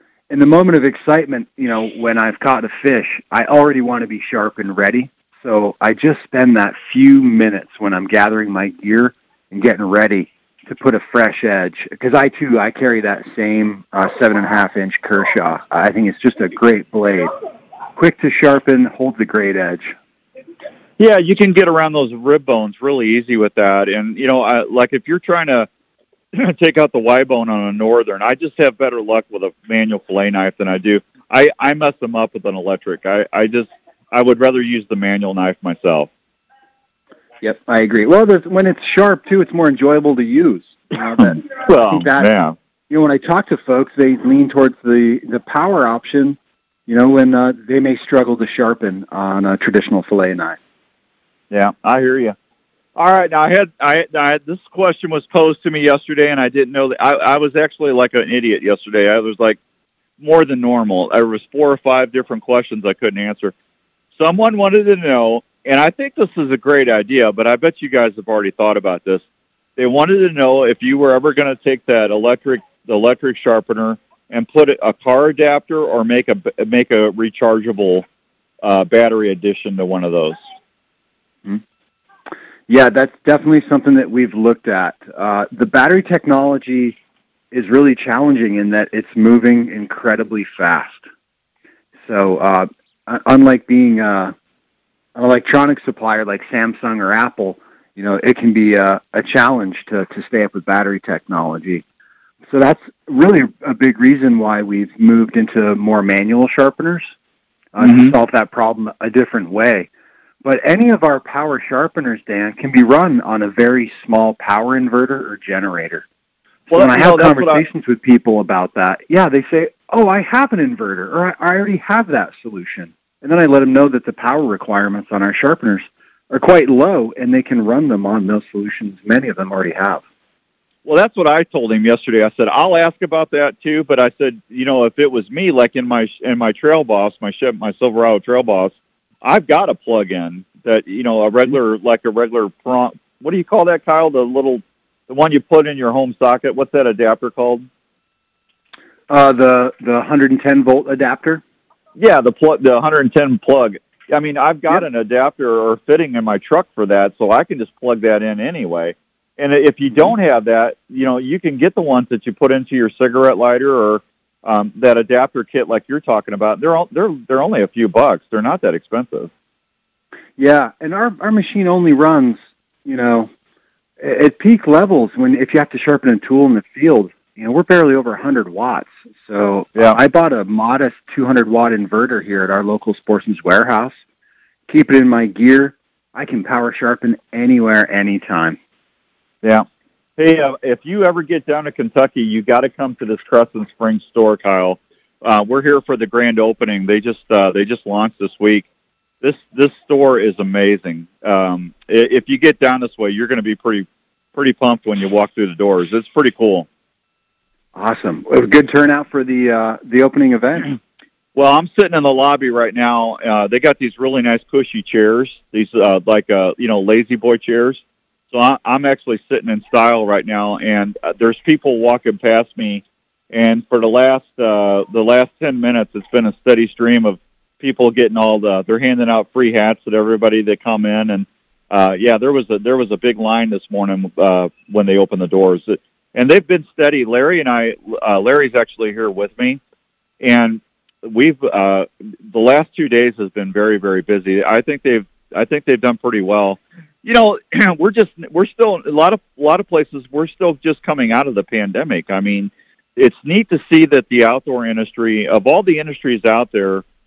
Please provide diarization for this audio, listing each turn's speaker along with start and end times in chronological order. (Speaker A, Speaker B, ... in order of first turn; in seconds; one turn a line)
Speaker A: 0.3-17.3
Speaker A: 17.9-19.9
Speaker B: 21.0-25.7
Speaker B: 26.3-36.1
Speaker A: 37.4-42.3
Speaker B: 41.4-42.5
Speaker A: 42.9-50.6
Speaker B: 51.5-52.3
Speaker B: 53.0-59.6
Speaker B: 60.2-63.5
Speaker B: 64.2-69.2
Speaker B: 69.8-78.0
Speaker B: 78.6-80.4
Speaker A: 82.7-87.0
Speaker A: 87.5-91.0
Speaker A: 92.0-94.3
Speaker A: 95.1-101.8
Speaker A: 102.4-107.1
Speaker A: 107.7-109.9
Speaker B: 107.8-108.1
Speaker A: 110.4-116.0
Speaker A: 116.7-130.0
Speaker B: 116.7-117.6
Speaker B: 130.8-147.6
Speaker A: 149.1-151.4
Speaker B: 152.0-169.3
Speaker A: 170.4-173.3
Speaker A: 174.0-184.0
Speaker A: 184.7-188.6
Speaker B: 190.2-198.7
Speaker B: 199.2-206.7
Speaker A: 207.7-210.8
Speaker B: 211.3-217.8
Speaker B: 218.3-239.6
Speaker B: 240.2-256.8